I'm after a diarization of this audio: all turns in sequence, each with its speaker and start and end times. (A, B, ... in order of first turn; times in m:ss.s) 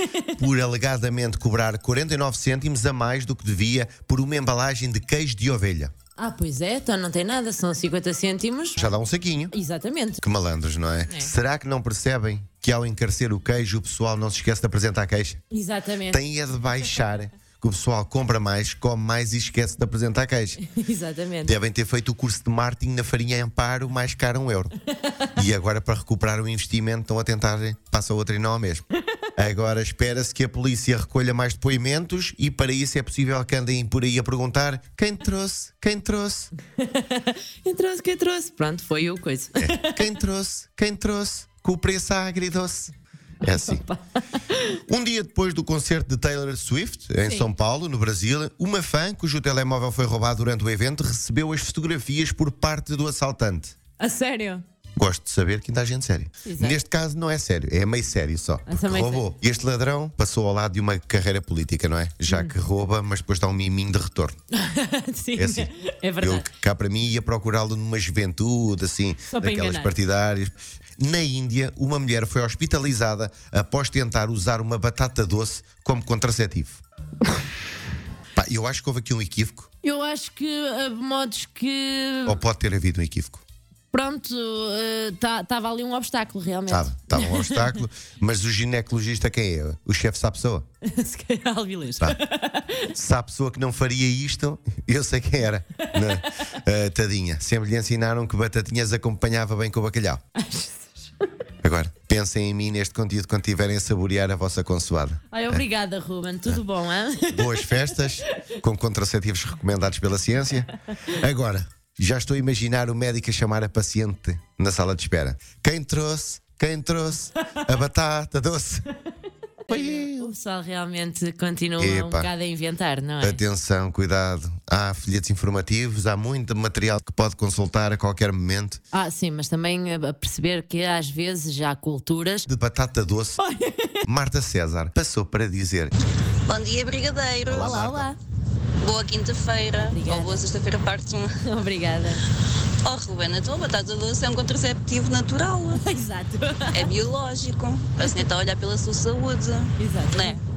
0:00.4-0:05.9 A
0:06.2-0:08.9 B
0:08.8-0:09.5 A
0:09.5-0:10.2 B
0:10.2-0:15.4 A
0:15.5-0:16.2 B
0:16.1-0:20.6 A
0:20.6-0:21.5 B
0:21.4-0:24.7 A
0:25.3-0:28.8 A
0:29.4-0:36.5 A
0:36.8-0:40.0 B
0:39.6-0:42.9 A
0:43.4-0:43.8 A
0:43.4-0:44.0 B
0:44.9-0:53.8 A
0:54.0-0:54.6 B
0:55.0-1:04.4 A
0:56.4-0:56.8 B
0:58.7-0:59.3 B
1:02.3-1:02.5 B
1:04.5-1:06.5 B
1:05.4-1:05.7 A
1:06.2-1:16.8 A
1:09.3-1:09.9 B
1:18.3-1:19.7 A
1:19.8-1:22.4 B
1:22.2-1:23.4 A
1:23.9-1:27.8 B
1:26.7-1:30.7 A
1:30.8-1:32.9 B
1:32.9-1:40.2 A
1:40.4-1:40.9 B
1:41.6-1:45.6 A
1:45.3-1:48.2 B
1:47.3-1:58.8 A
1:59.7-2:00.3 A
1:59.7-2:03.4 B
2:01.8-2:02.3 A
2:03.2-2:08.8 A
2:08.9-2:12.5 B
2:12.5-2:13.4 A
2:13.4-2:14.0 B
2:14.0-2:15.9 A
2:16.4-2:17.8 C
2:17.5-2:18.1 A
2:17.5-2:18.2 B
2:18.8-2:21.3 C
2:19.8-2:20.4 B
2:21.4-2:22.2 B
2:22.8-2:25.8 C
2:25.7-2:26.9 B
2:26.7-2:30.4 C
2:28.0-2:28.3 B
2:29.8-2:30.4 B